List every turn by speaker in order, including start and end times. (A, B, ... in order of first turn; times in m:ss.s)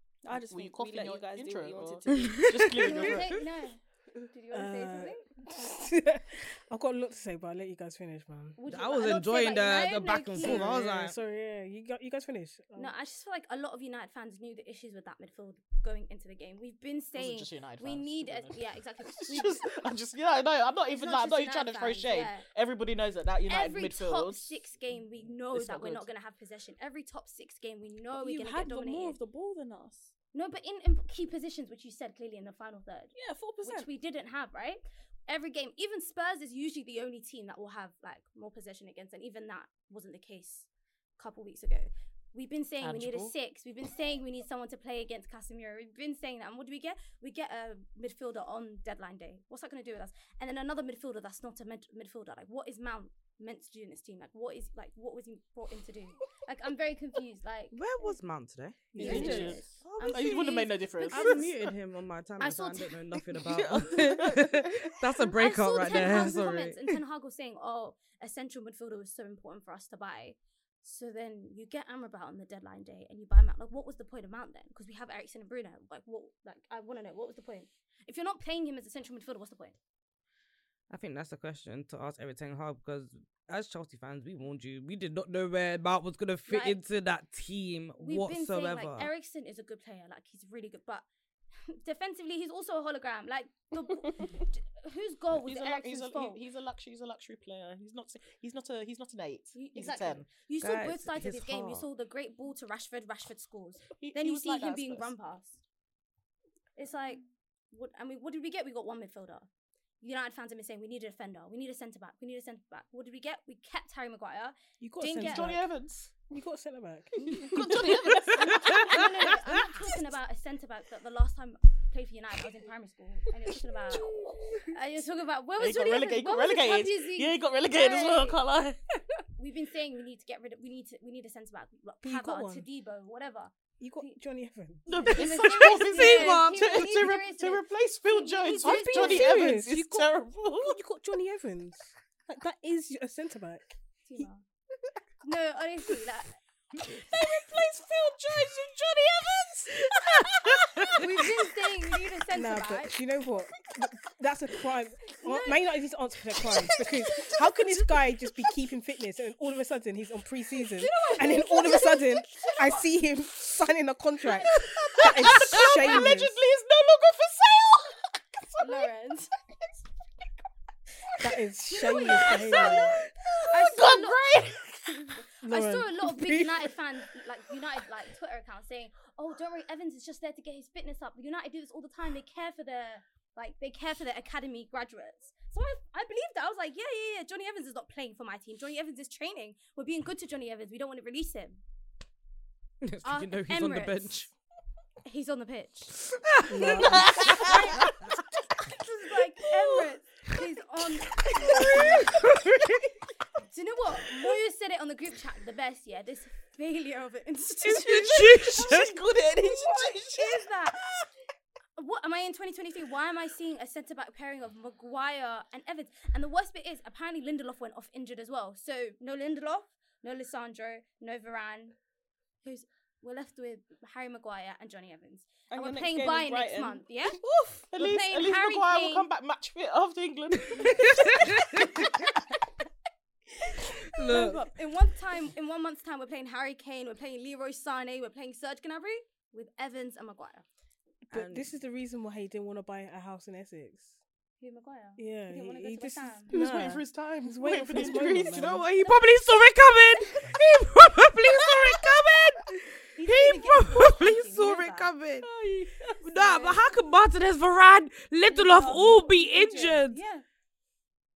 0:00.2-0:02.5 A
0:00.3-0:03.4 B
0:02.8-0:05.2 C
0:04.5-0:08.6 D
0:08.6-0:10.6 C
0:08.7-0:11.1 E
0:10.3-0:12.9 D
0:12.8-0:19.6 C
0:17.2-0:24.6 B
0:20.9-0:22.4 C
0:23.5-0:29.2 C
0:25.5-0:26.1 B
0:28.1-0:30.1 A
0:30.3-0:58.1 C
0:33.1-0:33.9 A
0:42.8-0:43.3 E
0:57.7-1:00.4 E
0:58.9-0:59.6 D
0:59.0-1:01.5 C
0:59.0-1:01.5 B
1:01.1-1:06.8 E
1:02.4-1:02.9 C
1:03.4-1:05.0 B
1:05.4-1:19.8 C
1:20.9-1:29.1 E
1:26.5-1:26.8 C
1:28.0-1:31.0 C
1:31.6-1:36.4 C
1:33.8-1:34.4 A
1:35.4-1:40.3 B
1:39.5-1:45.6 C
1:40.6-1:41.8 E
1:44.0-1:45.1 B
1:46.8-1:49.5 C
1:50.0-1:55.6 C
1:54.8-1:55.7 D
1:55.2-1:56.1 B
1:56.3-1:58.5 D
1:57.3-1:59.4 B
1:58.3-2:04.1 C
2:03.9-2:04.7 B
2:04.6-2:08.4 C
2:05.6-2:08.8 B
2:09.4-2:14.2 C
2:12.0-2:12.7 D
2:13.8-2:16.2 D
2:14.9-2:20.8 B
2:15.0-2:19.4 C
2:18.5-2:23.7 D
2:24.0-2:24.4 C
2:25.2-2:26.4 C
2:26.8-2:31.3 B
2:30.9-2:33.0 C
2:32.3-2:46.4 D
2:40.9-2:41.1 B
2:41.1-2:42.1 C
2:44.2-2:44.6 C
2:44.5-2:48.9 B
2:48.6-2:49.3 C
2:51.2-2:53.0 D
2:51.7-2:52.9 C
2:51.8-2:55.2 B
2:53.5-2:54.2 C
2:55.2-3:11.6 C
2:55.4-2:56.4 D
3:12.8-3:14.3 E
3:13.0-3:14.3 C
3:15.0-3:16.0 C
3:16.3-3:17.2 E
3:16.4-3:17.6 D
3:16.7-3:18.6 B
3:16.9-3:17.9 C
3:18.7-3:21.9 C
3:21.2-3:22.2 B
3:23.5-3:28.1 C
3:27.6-3:31.1 B
3:27.8-3:28.9 E
3:29.4-3:30.8 C
3:31.8-3:41.8 C
3:42.4-3:47.2 C
3:45.5-3:46.8 A
3:47.7-3:52.1 B
3:47.7-3:49.1 C
3:50.6-3:51.6 E
3:53.9-3:54.5 E
3:54.0-4:00.4 C
4:01.1-4:04.0 D
4:01.1-4:01.5 E
4:04.4-4:06.4 C
4:05.0-4:08.6 D
4:06.3-4:08.7 B
4:08.3-4:15.3 E
4:08.8-4:09.1 C
4:12.9-4:14.9 C
4:15.2-4:15.8 B
4:16.0-4:20.0 E
4:16.1-4:16.6 C
4:18.3-4:19.8 A
4:19.8-4:20.2 C